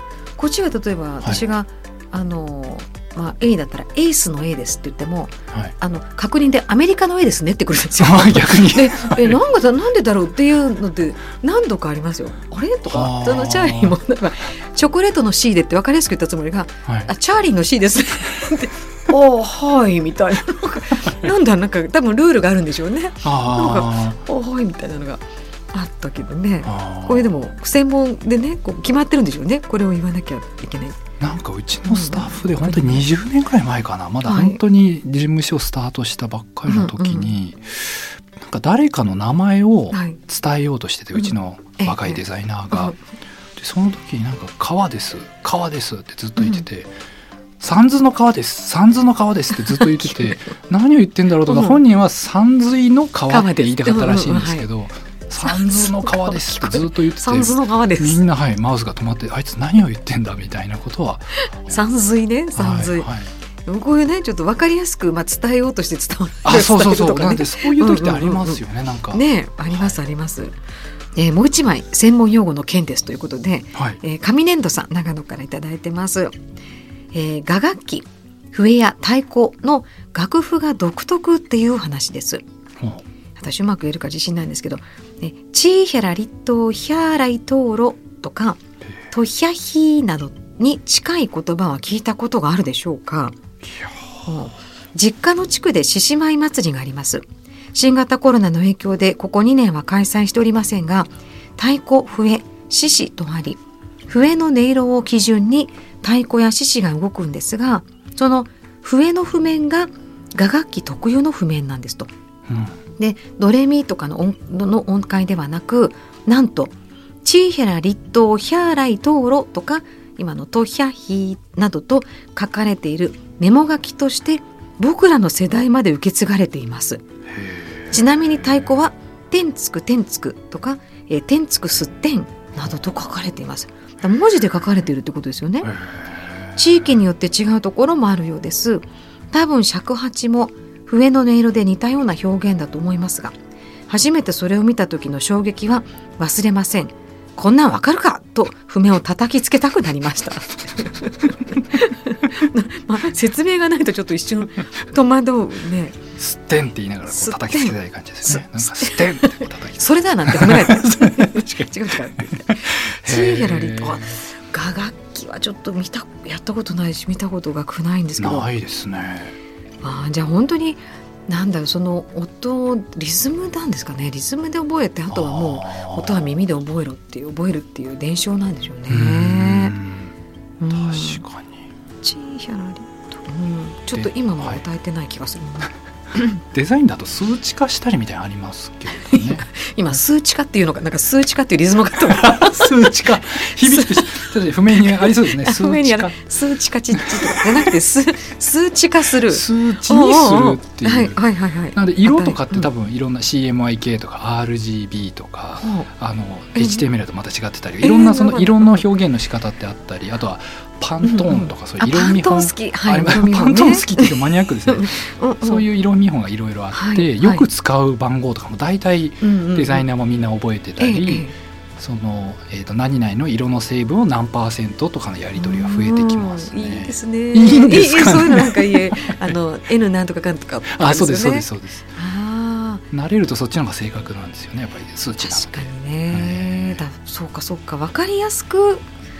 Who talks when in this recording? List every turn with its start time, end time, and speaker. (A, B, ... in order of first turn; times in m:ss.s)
0:00.4-0:31.0 A
0:08.0-0:09.4 B
0:12.9-0:14.0 B
0:16.9-0:17.1 B
0:23.2-0:24.2 B
0:26.6-0:27.4 B
0:31.2-0:43.0 B
0:31.9-0:33.1 A
0:34.2-0:34.6 A
0:36.7-0:37.3 A
0:39.9-0:40.2 A
0:41.2-0:43.0 A
0:43.6-0:46.9 B
0:46.4-0:46.7 A
0:47.6-1:01.8 B
0:49.7-0:50.4 A
0:51.4-0:51.8 A
0:53.3-0:54.7 A
0:55.4-0:58.2 A
1:01.4-1:03.1 A
1:02.6-1:03.3 B
1:03.7-1:10.6 A
1:06.4-1:10.0 B
1:11.2-1:16.4 A
1:13.8-1:14.0 B
1:17.1-1:22.4 A
1:22.8-1:23.0 B
1:23.4-1:33.4 A
1:33.7-1:34.0 B
1:34.3-1:52.1 A
1:52.5-1:52.8 B
1:53.0-2:07.0 A
2:07.3-2:08.4 B
2:07.9-2:15.8 A
2:15.6-2:16.8 B
2:16.6-2:23.3 A
2:23.9-2:36.0 A
2:36.2-2:44.2 B
2:37.1-2:48.5 A
2:48.2-2:49.4 B
2:49.8-2:59.8 A
2:55.1-2:56.3 B
2:58.9-3:00.1 B
3:00.6-3:01.2 A
3:00.7-3:01.6 B
3:02.0-3:05.7 A
3:04.0-3:04.6 B
3:06.4-3:09.5 B
3:09.0-3:14.3 A
3:12.0-3:16.2 B
3:14.8-3:22.7 A
3:17.0-3:17.7 B
3:19.3-3:41.3 B
3:25.6-3:25.9 A
3:26.6-3:26.9 A
3:27.8-3:28.8 A
3:31.0-3:35.7 A
3:36.7-3:37.5 A
3:39.2-3:39.9 A
3:40.8-3:41.4 A
3:41.8-3:49.3 B
3:45.4-3:52.8 A
3:50.7-3:51.9 B
3:52.9-3:56.8 B
3:55.2-3:58.8 A